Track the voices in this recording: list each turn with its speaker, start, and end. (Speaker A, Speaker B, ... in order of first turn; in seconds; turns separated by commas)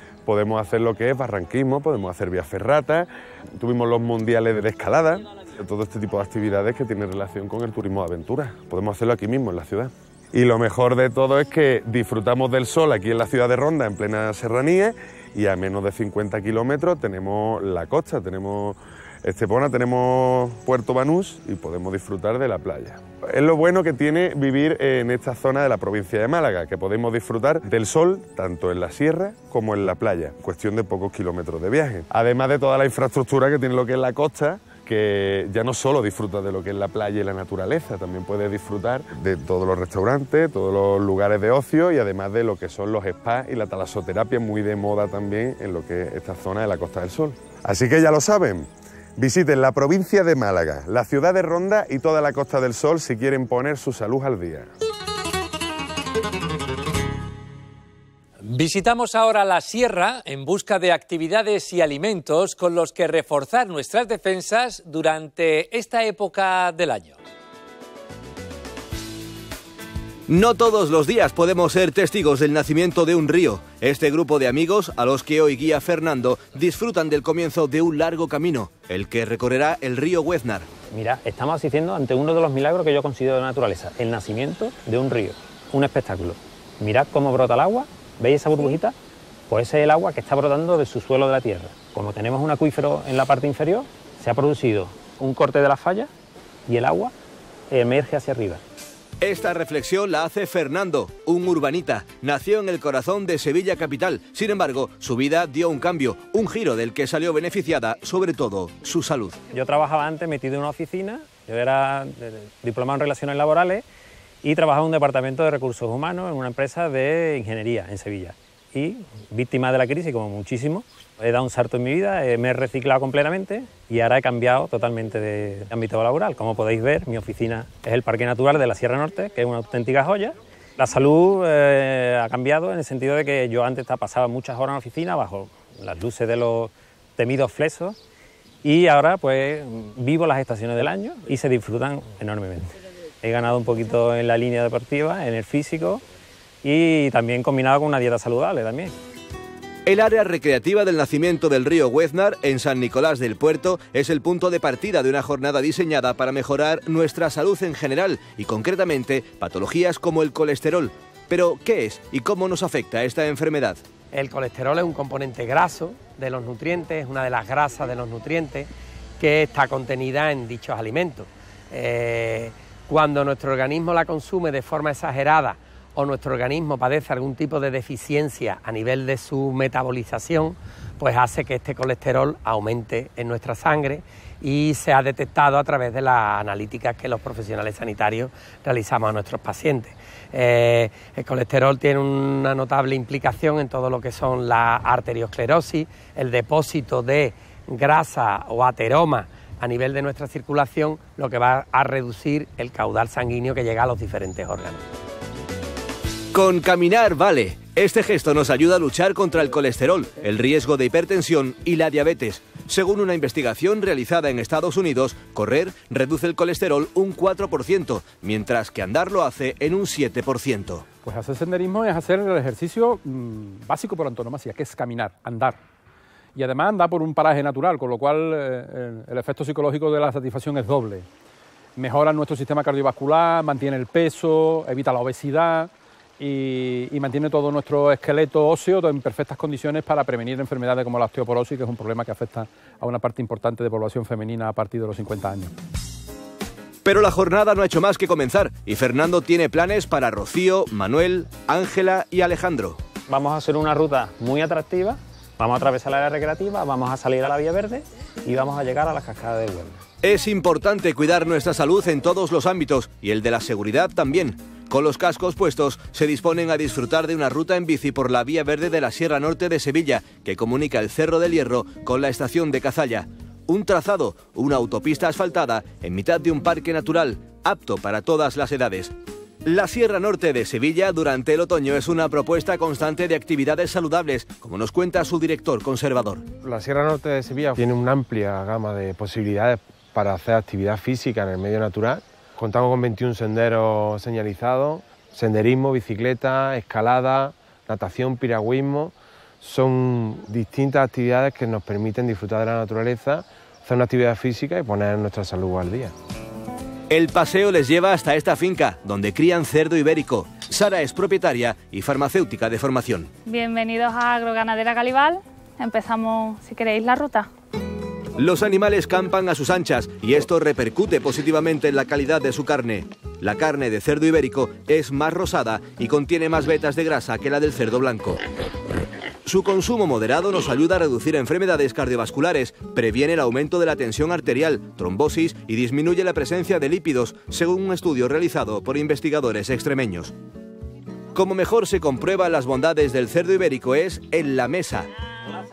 Speaker A: 0.3-54.7, Speaker B: 58.4-67.2, Speaker C: 70.3-80.7, Speaker D: 80.9-88.9, Speaker D: 89.5-96.1, Speaker D: 96.7-97.1, Speaker D: 97.7-98.6, Speaker C: 99.2-109.4, Speaker D: 109.5-113.8, Speaker D: 114.4-138.0, Speaker D: 138.6-142.7, Speaker D: 143.2-146.0, Speaker D: 146.6-148.9, Speaker C: 149.9-163.8, Speaker E: 164.1-204.8, Speaker C: 206.3-220.9, Speaker F: 221.1-225.6, Speaker F: 226.4-231.1, Speaker F: 231.8-235.7, Speaker F: 236.2-245.5, Speaker C: 246.8-252.8, Speaker D: 253.1-259.8, Speaker C: 260.0-278.9, Speaker C: 279.4-286.2, Speaker G: 286.4-298.9, Speaker G: 299.4-305.9, Speaker C: 306.9-313.1, Speaker H: 313.3-317.3, Speaker C: 318.2-328.2, Speaker C: 329.2-340.1, Speaker C: 341.1-344.9